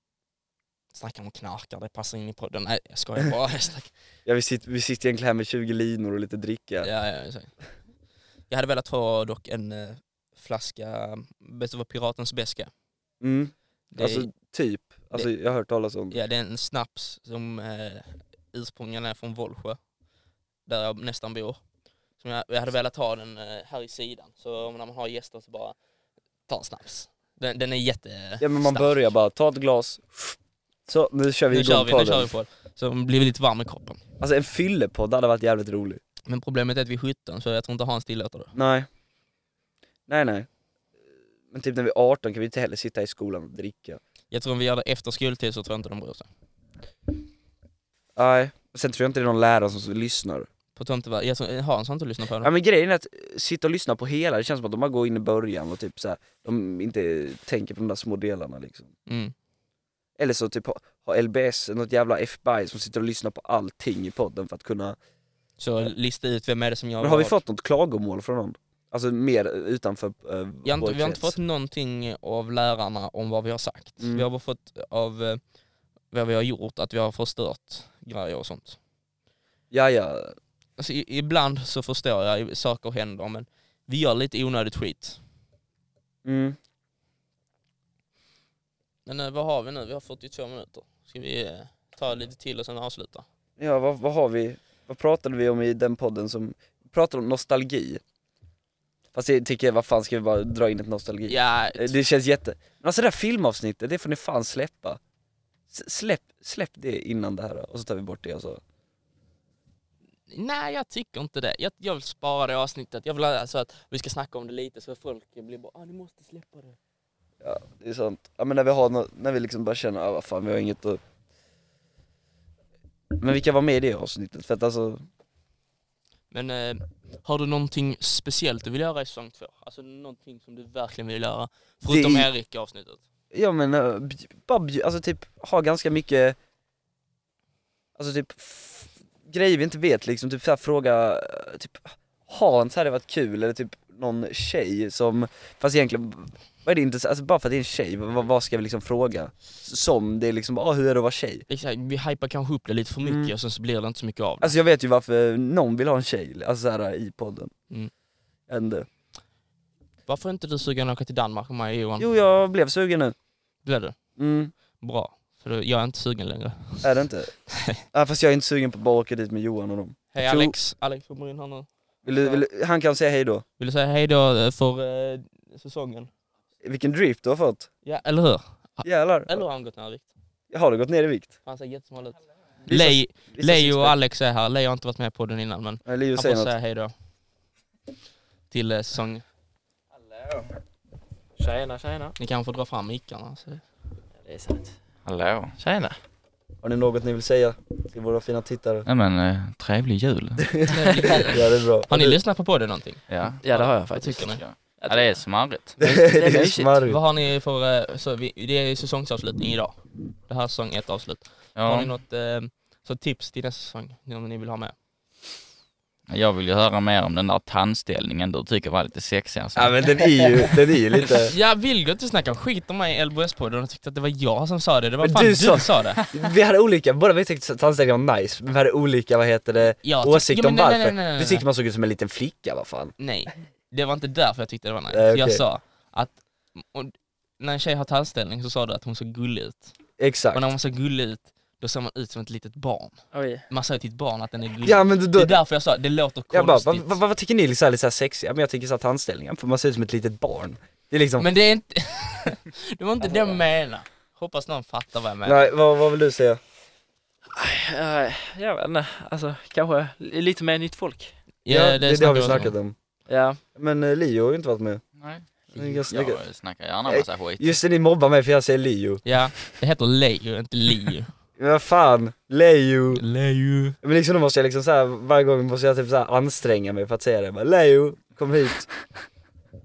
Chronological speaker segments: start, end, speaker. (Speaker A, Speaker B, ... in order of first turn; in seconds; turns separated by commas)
Speaker A: 0.9-3.9, Speaker B: 4.2-6.9, Speaker A: 6.8-7.6, Speaker A: 8.5-12.7, Speaker B: 13.2-16.2, Speaker A: 13.9-14.3, Speaker A: 16.1-19.8, Speaker A: 20.6-21.6, Speaker A: 22.1-25.8, Speaker A: 26.5-28.9, Speaker B: 28.4-32.3, Speaker A: 31.5-34.0, Speaker B: 34.2-36.0, Speaker A: 36.2-38.5, Speaker B: 38.5-38.9, Speaker B: 40.1-40.5, Speaker B: 41.5-44.0, Speaker A: 44.3-46.3, Speaker B: 48.1-50.5, Speaker A: 50.8-52.5, Speaker B: 52.4-58.9, Speaker A: 59.1-59.3, Speaker B: 60.2-65.0, Speaker A: 65.6-67.4, Speaker B: 67.0-71.3, Speaker A: 70.6-75.4, Speaker B: 74.0-74.2, Speaker A: 76.1-78.8, Speaker B: 79.7-80.3, Speaker A: 80.8-85.2, Speaker B: 86.2-86.6, Speaker A: 89.0-93.2, Speaker B: 93.6-98.0, Speaker B: 99.1-105.0, Speaker A: 101.3-102.0, Speaker B: 105.7-108.6, Speaker A: 110.3-116.8, Speaker B: 117.4-121.0, Speaker B: 123.2-125.0, Speaker A: 126.3-133.0, Speaker B: 131.9-132.3, Speaker B: 133.3-136.4, Speaker B: 138.0-151.4, Speaker A: 151.5-154.6, Speaker B: 153.0-153.3, Speaker B: 154.4-157.6, Speaker B: 158.5-158.9, Speaker A: 160.1-162.1, Speaker B: 162.0-163.2, Speaker A: 163.6-166.9, Speaker B: 164.2-164.5, Speaker B: 166.8-170.6, Speaker A: 170.1-172.4, Speaker B: 172.0-173.4, Speaker A: 173.6-176.1, Speaker B: 176.6-177.7, Speaker A: 177.8-180.1, Speaker B: 178.8-179.4, Speaker B: 180.5-181.3, Speaker A: 181.4-186.9, Speaker B: 182.6-183.9, Speaker B: 185.8-186.5, Speaker A: 188.5-189.2, Speaker C: 191.4-192.1, Speaker A: 192.2-193.6, Speaker C: 194.2-194.8, Speaker D: 195.0-195.6, Speaker C: 195.6-196.0, Speaker B: 196.6-198.8, Speaker D: 198.8-200.7, Speaker B: 200.4-200.7, Speaker A: 200.7-204.4, Speaker B: 201.2-202.2, Speaker D: 203.1-205.8, Speaker C: 203.4-206.8, Speaker B: 205.8-207.0, Speaker A: 206.8-214.7, Speaker D: 211.5-211.9, Speaker D: 216.1-220.5, Speaker B: 219.5-221.3, Speaker A: 221.2-226.0, Speaker B: 225.0-232.9, Speaker A: 229.8-231.4, Speaker A: 233.0-239.7, Speaker B: 234.9-235.4, Speaker B: 240.0-240.4, Speaker A: 240.3-246.9, Speaker C: 243.1-243.4, Speaker B: 244.6-245.3, Speaker B: 246.3-251.2, Speaker A: 251.2-255.5, Speaker C: 253.0-253.4, Speaker B: 255.2-256.4, Speaker C: 257.3-261.2, Speaker A: 261.4-262.6, Speaker B: 261.5-262.8, Speaker C: 263.1-263.4, Speaker B: 263.4-264.8, Speaker D: 265.0-267.6, Speaker B: 265.4-266.2, Speaker C: 265.5-265.8, Speaker B: 266.9-269.0, Speaker A: 269.0-271.1, Speaker B: 271.4-273.0, Speaker A: 272.9-273.8, Speaker B: 273.8-279.0